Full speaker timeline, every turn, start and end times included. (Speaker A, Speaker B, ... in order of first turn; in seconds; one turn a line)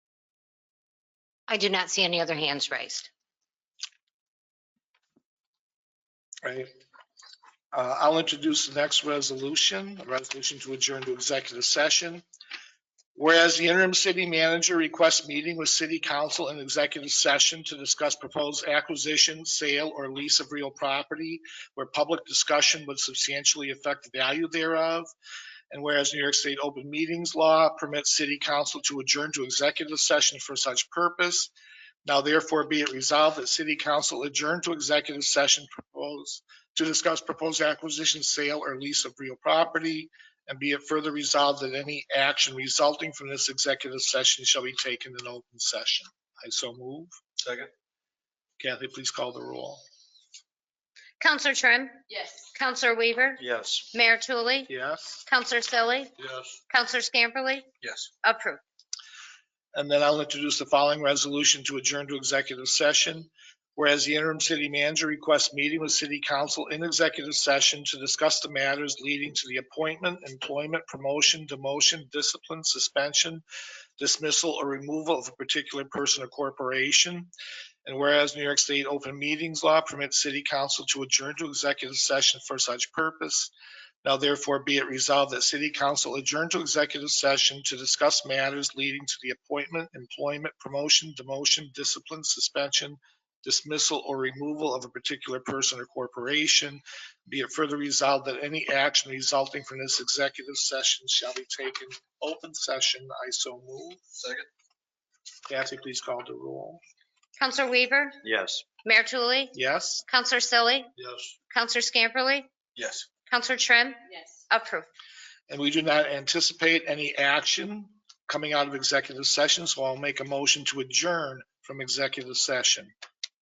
Speaker A: 1.5-3.1
Speaker B: 6.4-6.7
Speaker B: 7.7-12.2
Speaker B: 13.2-25.1
Speaker B: 25.7-31.5
Speaker B: 32.0-47.1
Speaker C: 47.4-47.7
Speaker B: 48.6-49.8
Speaker A: 51.2-53.4
Speaker C: 53.4-53.9
Speaker A: 53.9-54.7
Speaker B: 54.7-55.2
Speaker A: 55.3-56.1
Speaker C: 56.2-56.5
Speaker A: 56.7-57.7
Speaker C: 57.8-58.1
Speaker A: 58.2-58.6
Speaker B: 59.7-73.4
Speaker B: 74.0-77.3
Speaker B: 77.8-83.5
Speaker B: 84.0-104.0
Speaker C: 104.2-104.5
Speaker B: 105.5-106.8
Speaker A: 107.4-108.2
Speaker C: 108.2-108.6
Speaker A: 108.8-109.5
Speaker B: 109.5-110.0
Speaker A: 110.1-110.9
Speaker C: 111.0-111.3
Speaker A: 111.5-112.5
Speaker C: 112.8-113.1
Speaker A: 113.3-114.9
Speaker B: 115.5-122.9